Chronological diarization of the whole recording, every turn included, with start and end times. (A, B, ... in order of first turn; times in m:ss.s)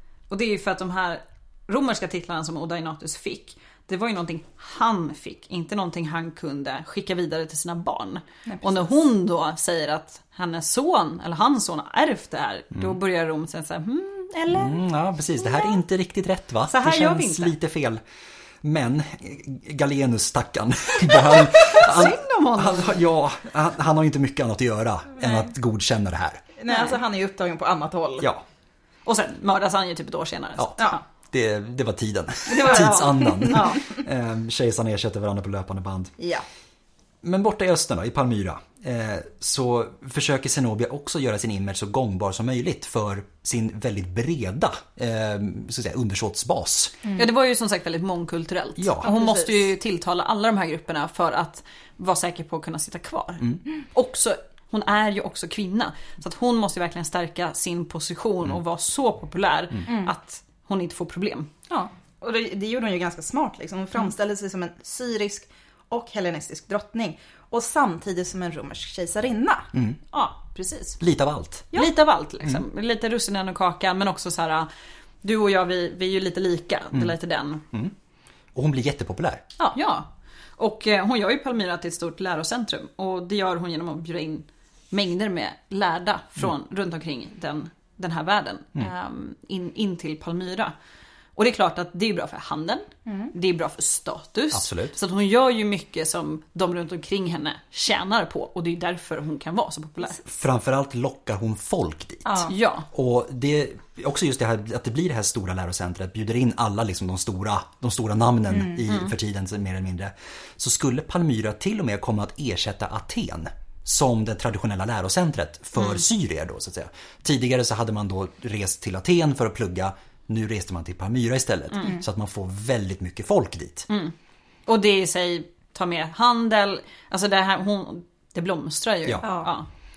0:00.3-0:14.8 A
0:08.5-0:08.9 B
0:14.5-0:18.0 C
0:16.7-0:17.6 A
0:18.6-0:26.5 C
0:21.3-0:23.0 A
0:26.6-0:28.3 B
0:26.7-0:27.0 A
0:29.1-0:31.0 A
0:30.6-0:36.2 C
0:32.5-0:33.9 A
0:36.2-0:36.4 B
0:37.2-0:47.0 C
0:47.1-1:01.5 A
0:48.8-0:49.1 C
0:49.0-0:49.6 B
1:01.7-1:09.7 B
1:10.1-1:11.0 A
1:11.0-1:11.7 C
1:11.7-1:14.7 A
1:15.2-1:17.6 A
1:18.6-1:19.4 C
1:19.7-1:30.7 A
1:31.4-1:40.2 A
1:34.5-1:35.0 C
1:40.2-2:03.9 C
1:42.2-1:42.5 B
1:42.5-1:42.9 A
1:48.9-1:49.1 A
2:03.9-2:04.1 A
2:04.7-2:09.7 A
2:09.2-2:09.5 B